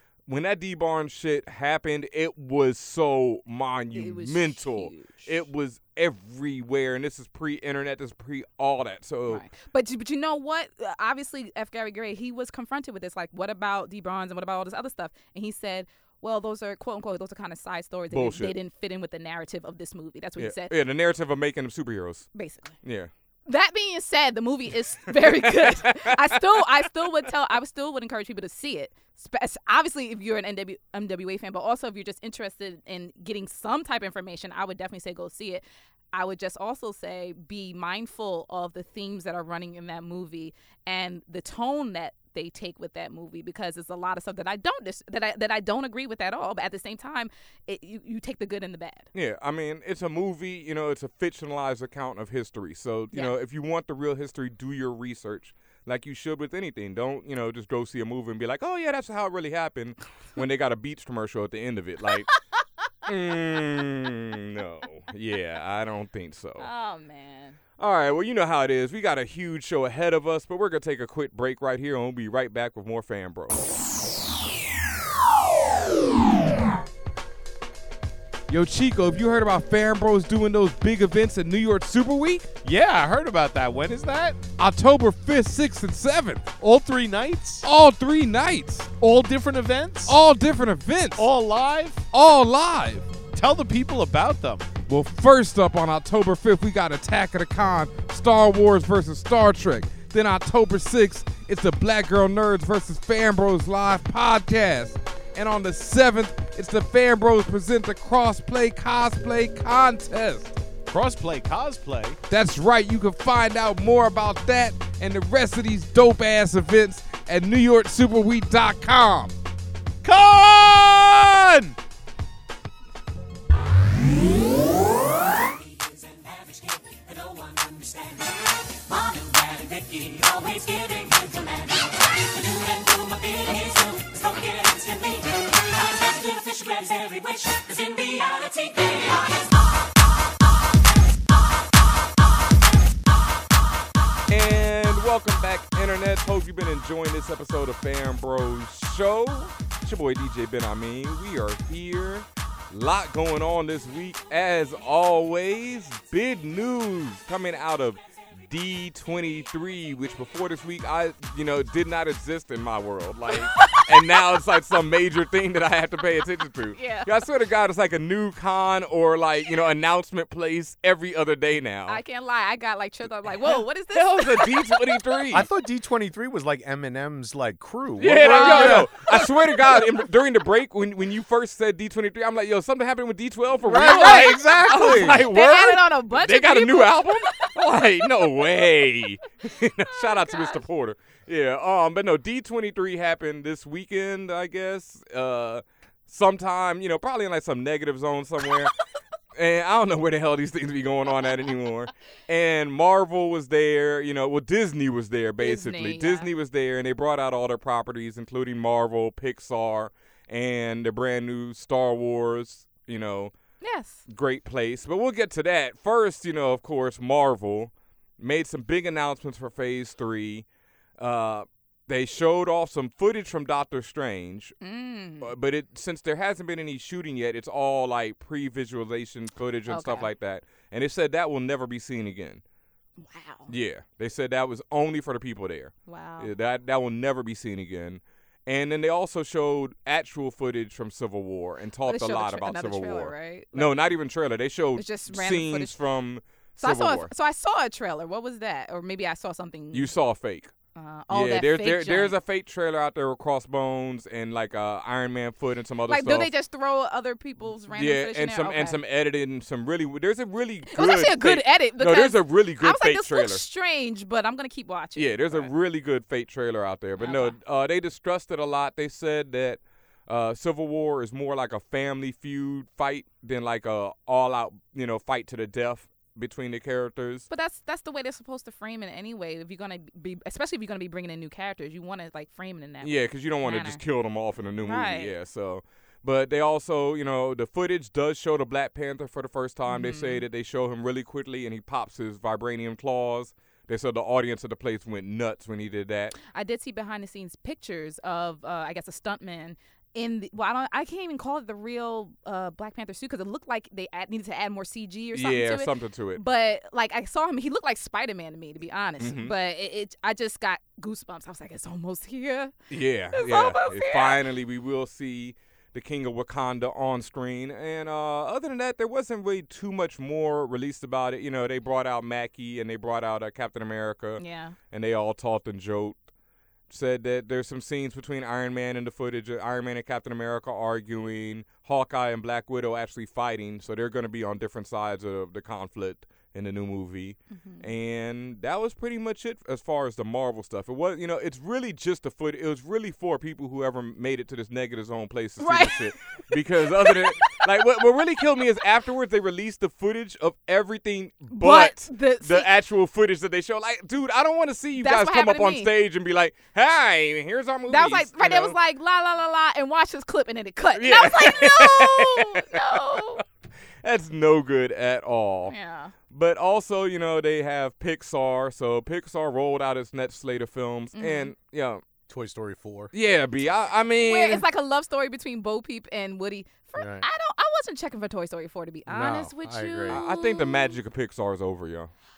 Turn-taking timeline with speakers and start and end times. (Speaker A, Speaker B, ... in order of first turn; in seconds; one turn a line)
Speaker A: 0.3-9.4
Speaker B: 3.9-5.3
Speaker B: 9.3-20.8
Speaker A: 18.1-18.5
Speaker A: 20.4-22.3
Speaker B: 22.4-22.8
Speaker A: 22.8-23.1
Speaker B: 23.5-49.1
Speaker A: 25.2-26.4
Speaker A: 49.1-62.3
Speaker A: 63.1-66.7
Speaker B: 66.6-67.6
Speaker A: 67.8-73.7
Speaker A: 78.5-82.5
Speaker C: 82.6-84.4
Speaker A: 84.6-86.5
Speaker C: 86.6-87.7
Speaker A: 87.6-88.9
Speaker C: 89.0-90.2
Speaker A: 90.1-91.3
Speaker C: 91.2-92.1
Speaker A: 92.1-93.1
Speaker C: 93.3-94.7
Speaker A: 94.9-110.5
Speaker C: 110.9-112.2
Speaker A: 112.3-119.3
Speaker C: 120.0-121.8
Speaker A: 144.3-172.0
Speaker B: 163.5-164.0
Speaker B: 166.8-167.2
Speaker B: 171.9-175.0
Speaker A: 173.9-175.5
Speaker C: 175.3-178.9
Speaker A: 178.0-198.7
Speaker B: 178.2-179.2
Speaker C: 183.7-185.2
Speaker B: 183.7-187.5
Speaker B: 189.9-190.6
Speaker A: 199.3-213.3
Speaker B: 205.4-206.3
Speaker B: 213.6-214.0
Speaker A: 214.1-220.5
Speaker A: 221.0-224.6
Speaker B: 224.6-225.3
Speaker A: 225.2-232.4
Speaker B: 229.7-230.1
Speaker B: 233.0-233.5
Speaker A: 233.5-247.1
Speaker B: 235.9-236.3
Speaker B: 241.9-243.7
Speaker B: 244.8-245.8
Speaker B: 246.6-249.9
Speaker A: 249.7-250.5
Speaker B: 250.8-252.2
Speaker A: 251.1-256.3
Speaker B: 255.9-258.8
Speaker A: 257.7-263.4
Speaker B: 260.7-265.5
Speaker A: 265.0-277.3
Speaker B: 267.0-267.4
Speaker B: 277.3-283.8
Speaker A: 282.8-296.1
Speaker B: 284.6-285.1
Speaker B: 289.7-290.2
Speaker B: 296.2-312.5
Speaker A: 305.1-306.2
Speaker A: 309.0-309.3
Speaker A: 312.7-326.0
Speaker B: 313.1-314.2
Speaker B: 324.2-324.6
Speaker A: 326.7-358.6
Speaker B: 337.3-337.7
Speaker B: 345.4-345.9
Speaker B: 346.8-347.5
Speaker B: 351.3-352.5
Speaker B: 354.8-355.7
Speaker B: 357.7-363.2
Speaker A: 360.8-362.6
Speaker A: 363.8-365.5
Speaker B: 365.5-365.9
Speaker A: 366.1-371.8
Speaker B: 370.9-371.3
Speaker C: 372.1-372.9
Speaker A: 372.9-374.4
Speaker B: 374.0-380.8
Speaker C: 376.8-377.1
Speaker C: 378.9-380.0
Speaker A: 379.9-381.9